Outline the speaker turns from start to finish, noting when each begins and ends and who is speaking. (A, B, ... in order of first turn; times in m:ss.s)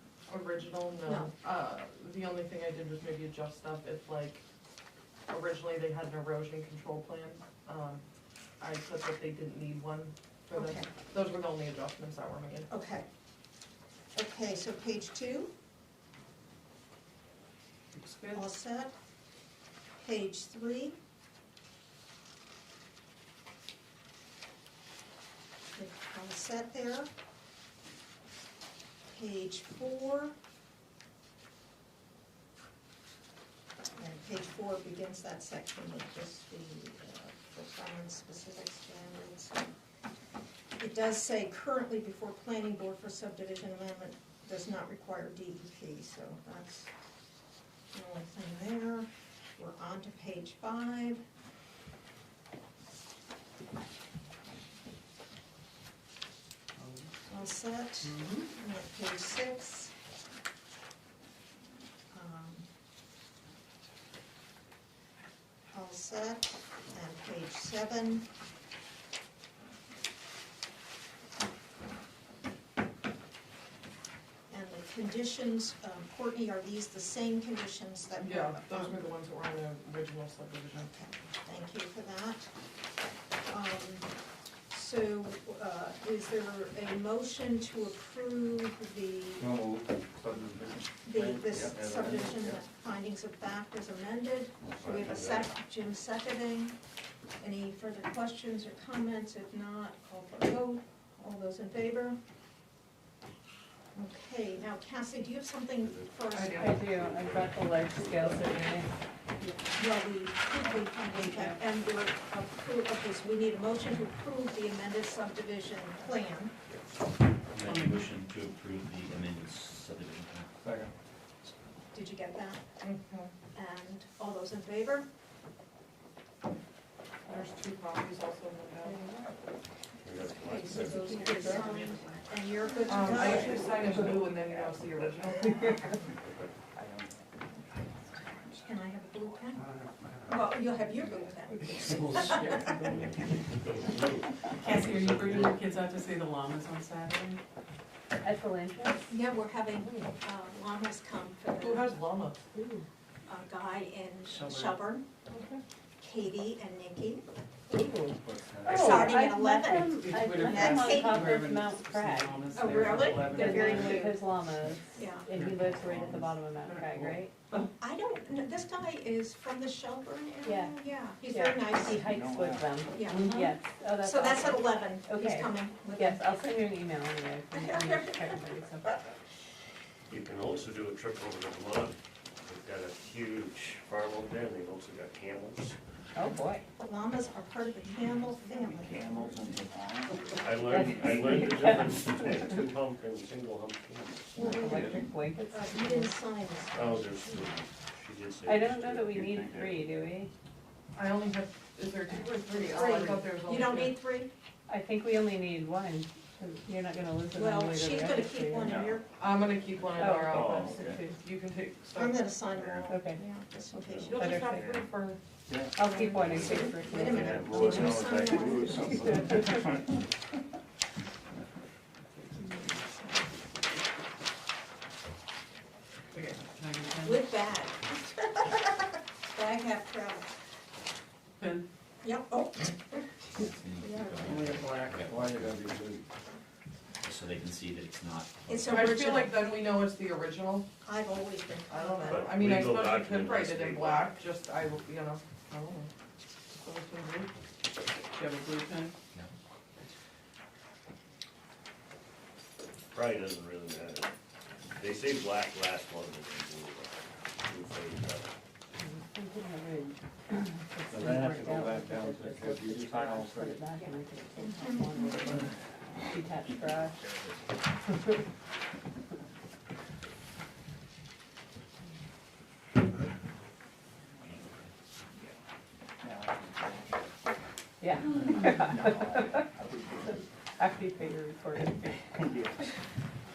0:00.3-0:04.4 A
0:01.0-0:01.4 B
0:05.3-0:08.0 A
0:08.6-0:12.7 A
0:10.5-0:10.9 B
0:12.7-0:13.0 B
0:14.1-0:15.5 B
0:18.3-0:18.9 B
0:20.0-0:21.0 B
0:25.7-0:27.1 B
0:29.1-0:30.3 B
0:34.0-0:39.7 B
0:40.8-0:46.9 B
0:47.9-0:51.2 B
0:57.2-0:59.9 B
0:58.0-0:58.3 C
1:02.1-1:02.7 B
1:05.7-1:08.2 B
1:14.5-1:19.0 B
1:18.2-1:21.0 A
1:20.9-1:22.5 B
1:23.4-1:24.1 B
1:24.7-1:29.5 B
1:29.4-1:32.6 D
1:31.0-1:36.8 B
1:34.7-1:35.5 E
1:37.4-1:42.2 B
1:43.9-1:46.8 B
1:45.8-1:48.8 E
1:46.3-1:46.8 A
1:46.5-1:48.9 F
1:49.7-1:56.5 B
1:51.0-1:51.6 F
1:57.6-2:00.5 G
2:00.6-2:00.9 D
2:01.4-2:02.6 B
2:02.8-2:03.3 A
2:03.5-2:05.1 B
2:07.3-2:09.0 A
2:10.0-2:11.6 E
2:10.1-2:14.6 B
2:10.7-2:11.9 F
2:12.9-2:16.0 A
2:18.2-2:19.6 B
2:20.3-2:22.8 B
2:21.9-2:23.2 C
2:23.2-2:25.7 E
2:24.6-2:25.4 A
2:24.7-2:27.4 C
2:28.2-2:29.1 F
2:29.1-2:32.0 B
2:31.6-2:32.4 A
2:32.5-2:32.8 F
2:33.3-2:35.0 B
2:34.3-2:34.8 C
2:36.0-2:37.2 B
2:37.7-2:42.5 F
2:38.2-2:39.1 D
2:38.7-2:41.6 B
2:39.9-2:44.0 C
2:42.5-2:44.2 B
2:43.1-2:43.6 A
2:43.2-2:47.7 F
2:45.0-2:45.3 B
2:45.3-2:46.0 C
2:46.6-2:47.2 C
2:47.8-2:52.0 B
2:50.4-2:59.0 F
2:52.0-2:52.7 D
2:52.9-2:53.3 B
2:53.2-2:53.5 C
2:54.0-2:56.2 B
2:57.5-2:58.3 B
3:00.1-3:05.8 E
3:06.1-3:06.6 F
3:06.7-3:09.5 B
3:08.8-3:10.2 D
3:10.3-3:14.7 E
3:10.6-3:12.5 F
3:14.4-3:17.3 B
3:14.4-3:16.2 F
3:14.6-3:14.9 D
3:16.7-3:19.2 E
3:18.4-3:20.3 F
3:19.1-3:19.7 D
3:20.9-3:24.0 A
3:22.5-3:24.3 B
3:24.7-3:28.9 F
3:27.3-3:29.3 B
3:28.7-3:29.0 D
3:29.2-3:32.3 A
3:29.9-3:31.0 D
3:29.9-3:31.2 F
3:31.9-3:34.5 B
3:32.9-3:33.2 F
3:34.0-3:34.8 D
3:34.0-3:35.2 A
3:34.2-3:34.6 F
3:35.5-3:35.8 D
3:35.7-3:37.9 F
3:35.8-3:39.3 B
3:36.0-3:38.0 E
3:36.8-3:40.0 D
3:38.7-3:39.6 F
3:42.4-3:43.3 B
3:46.2-3:46.6 A
3:46.6-3:47.1 C
3:47.0-3:50.3 B
3:52.0-3:53.0 B
3:53.4-3:55.5 G
3:53.8-3:54.3 B
3:54.3-3:56.0 D
3:57.0-3:58.8 G
3:58.5-3:59.5 B
3:58.7-4:00.7 A
4:00.8-4:02.4 B
4:01.7-4:05.9 A
4:02.0-4:04.2 E
4:06.5-4:07.3 A
4:08.1-4:08.9 C
4:12.9-4:14.1 E
4:14.7-4:18.3 E
4:18.8-4:27.0 F
4:20.9-4:23.6 D
4:23.8-4:25.3 B
4:36.0-4:36.8 D
4:37.8-4:39.5 F
4:38.8-4:39.8 D
4:40.6-4:42.2 F
4:42.2-4:42.6 D